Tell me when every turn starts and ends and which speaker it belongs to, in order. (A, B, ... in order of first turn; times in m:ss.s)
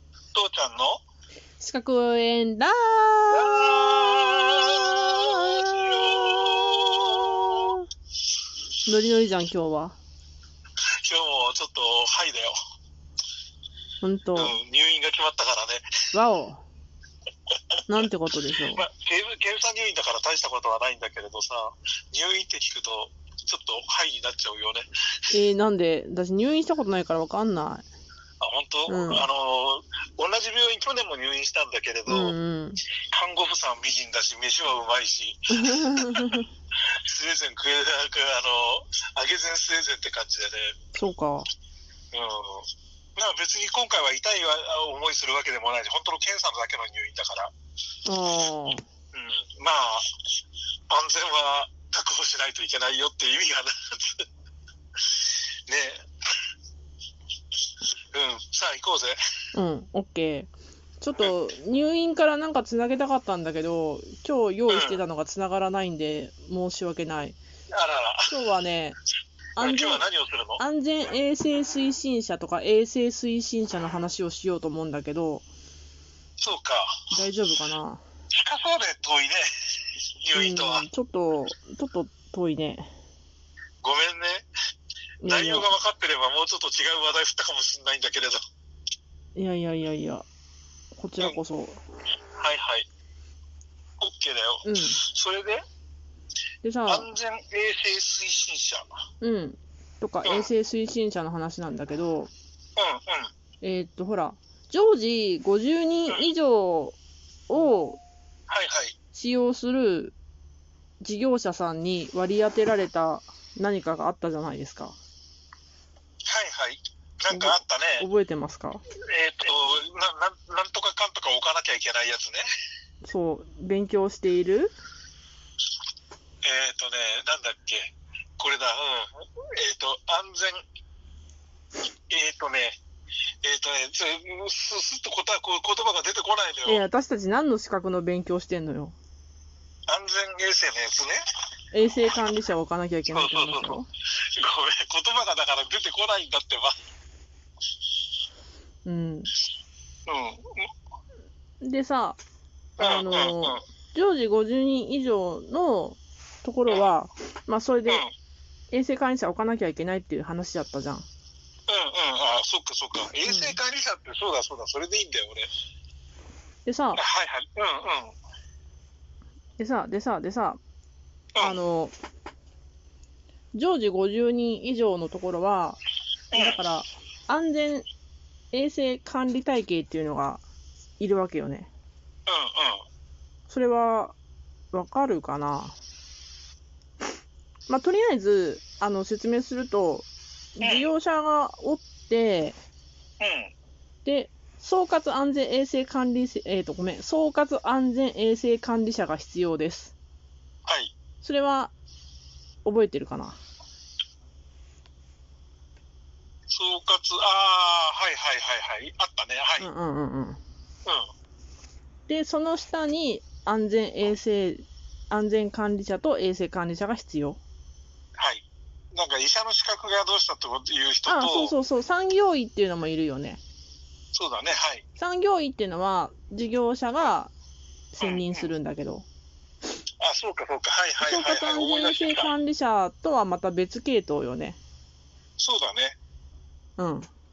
0:00.3-0:01.0 A
0:01.6-0:03.7 B
0:03.3-0:07.8 A
0:08.8-0:10.0 B
0:11.0-0:12.5 A
0:14.0-0:14.6 B
0:14.3-0:15.9 A
0:16.1-0:16.6 B
0:17.9-0:18.8 B
0:18.7-0:25.3 A
0:25.3-0:27.8 B
0:28.4-0:32.3 A
0:28.9-0:29.3 B
0:32.1-0:32.8 B
0:33.1-0:36.4 A
0:35.5-0:36.5 B
0:37.0-0:40.8 A
0:40.9-0:41.5 B
0:42.1-0:47.5 A
0:48.0-0:48.8 B
0:49.1-0:50.0 A
0:50.9-0:54.2 A
0:55.0-0:56.0 A
0:58.1-0:59.2 A
0:59.5-1:07.4 B
1:04.7-1:05.0 A
1:07.7-1:08.4 A
1:08.3-1:09.0 B
1:09.6-1:10.1 B
1:09.6-1:10.6 A
1:10.6-1:15.4 B
1:16.4-1:17.0 A
1:17.1-1:18.0 B
1:18.3-1:19.5 A
1:20.2-1:20.8 A
1:20.3-1:22.9 B
1:23.8-1:24.4 A
1:25.2-1:25.7 B
1:25.2-1:28.4 A
1:29.4-1:30.2 B
1:31.0-1:31.8 B
1:32.3-1:32.9 A
1:34.0-1:35.6 A
1:34.6-1:35.0 B
1:36.6-1:37.1 B
1:36.8-1:38.9 A
1:39.2-1:42.3 B
1:40.2-1:40.5 A
1:42.8-1:43.3 A
1:43.6-1:47.0 B
1:47.5-1:48.0 B
1:48.5-1:48.9 A
1:49.1-1:50.2 B
1:51.0-1:55.0 B
1:56.2-1:58.0 A
1:57.3-1:58.8 B
1:59.0-2:02.4 A
2:03.0-2:04.7 B
2:06.4-2:10.6 A
2:12.1-2:12.8 A
2:13.4-2:16.8 A
2:16.6-2:19.0 B
2:19.9-2:21.2 A
2:21.7-2:23.9 B
2:23.1-2:26.8 A
2:28.8-2:29.3 B
2:30.1-2:30.7 A
2:31.6-2:32.2 B
2:32.8-2:38.0 B
2:32.8-2:33.6 A
2:37.8-2:38.1 A
2:38.7-2:41.0 B
2:41.7-2:45.5 A
2:43.2-2:43.6 B
2:46.6-2:47.0 B
2:46.9-2:48.2 A
2:49.6-2:50.6 B
2:51.3-2:51.6 A
2:51.4-2:51.9 B
2:53.5-2:55.8 B
2:56.3-2:56.6 A
2:56.3-2:57.8 B
2:58.5-3:00.4 B
3:01.0-3:01.7 B
3:02.3-3:02.8 A
3:03.5-3:04.1 B
3:04.7-3:05.8 B
3:07.7-3:12.6 B
3:10.6-3:10.9 A
3:13.2-3:13.5 A
3:14.0-3:19.9 B
3:20.6-3:20.9 A
3:21.2-3:21.7 B
3:22.6-3:23.4 B
3:26.5-3:29.7 A
3:29.6-3:30.4 B
3:32.1-3:37.4 B
3:38.2-3:41.5 A
3:41.0-3:43.4 B
3:44.1-3:44.8 A
3:45.0-3:47.3 B
3:47.9-3:49.0 B
3:48.0-3:48.5 A
3:50.0-3:52.3 A
3:51.0-3:54.6 B
3:55.4-3:56.0 A
3:56.8-3:57.1 B